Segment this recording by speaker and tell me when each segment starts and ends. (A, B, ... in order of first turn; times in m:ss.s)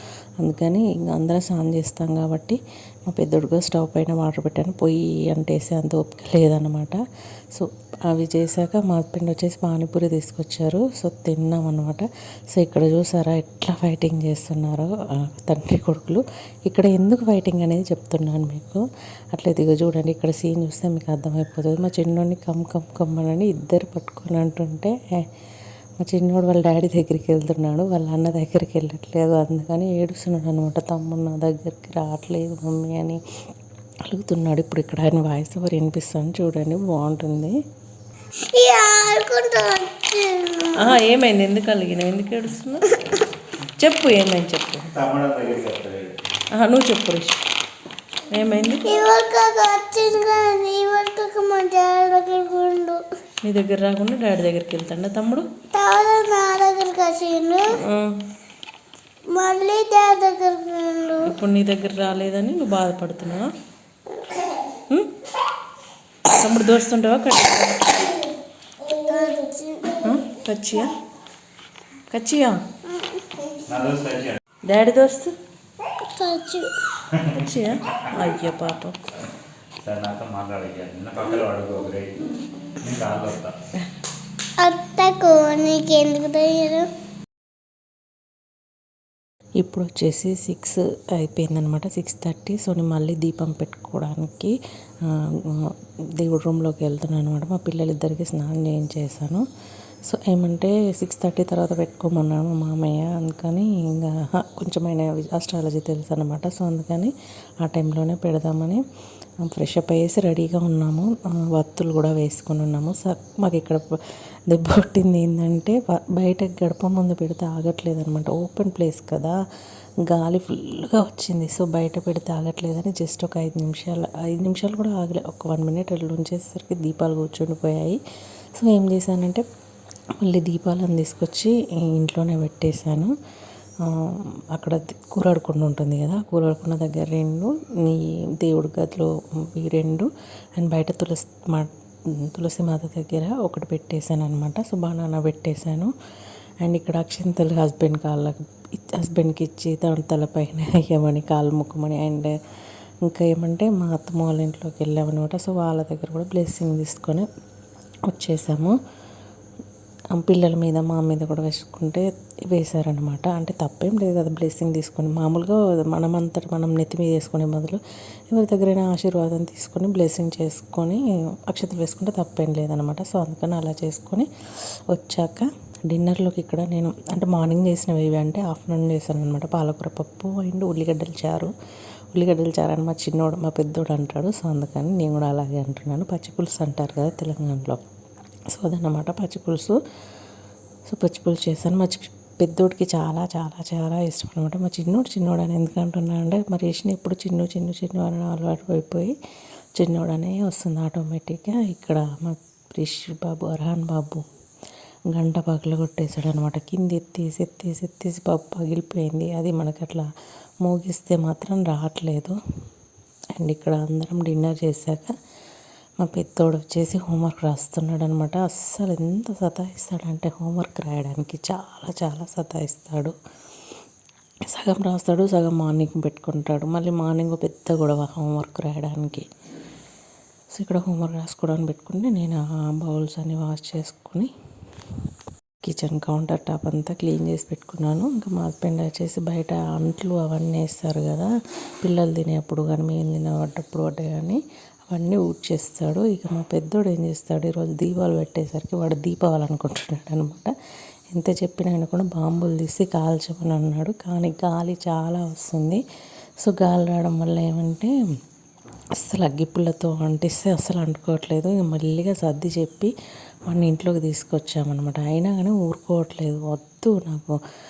0:00.4-0:25.1 A
0:26.0-0:33.2 A
0:34.1-0:37.6 A
0:38.5-0:40.9 B
0:40.8-0:43.0 A
0:43.8-0:44.9 A
0:44.9-0:46.2 C
0:46.5-0:47.4 A
0:48.3-0:49.0 A
0:48.8-0:53.0 B
0:53.4-0:55.5 A
0:55.7-0:57.7 B
0:57.7-0:58.2 A
0:59.3-1:01.3 B
1:01.2-1:03.5 A
1:06.3-1:08.0 A
1:08.9-1:10.0 B
1:10.0-1:10.9 A
1:12.1-1:12.6 A
1:13.0-1:13.5 B
1:13.6-1:14.4 C
1:14.7-1:15.3 A
1:16.1-1:16.7 B
1:17.3-1:18.9 A
1:19.8-1:23.5 C
1:24.6-1:26.9 B
1:29.6-1:34.6 A
1:35.1-1:39.4 A
1:40.1-1:48.8 A
1:49.5-1:53.8 A
1:54.5-1:59.4 A
2:00.0-2:08.0 A
2:08.6-2:09.4 A
2:10.2-2:13.1 A
2:13.8-2:21.7 A
2:22.3-2:25.9 A
2:26.6-2:32.3 A
2:33.1-2:37.3 A
2:38.1-2:38.8 A
2:40.1-2:47.8 A
2:48.3-2:54.3 A
2:54.9-3:01.5 A
3:02.1-3:07.8 A
3:08.5-3:09.8 A
3:10.9-3:19.1 A
3:19.8-3:24.2 A
3:25.1-3:30.1 A
3:30.6-3:32.4 A
3:33.4-3:35.1 A
3:36.0-3:43.1 A
3:44.5-3:49.2 A
3:50.5-3:54.3 A
3:55.6-4:01.3 A
4:01.8-4:10.5 A
4:11.1-4:15.8 A
4:16.4-4:17.9 A
4:19.0-4:22.9 A
4:23.5-4:27.4 A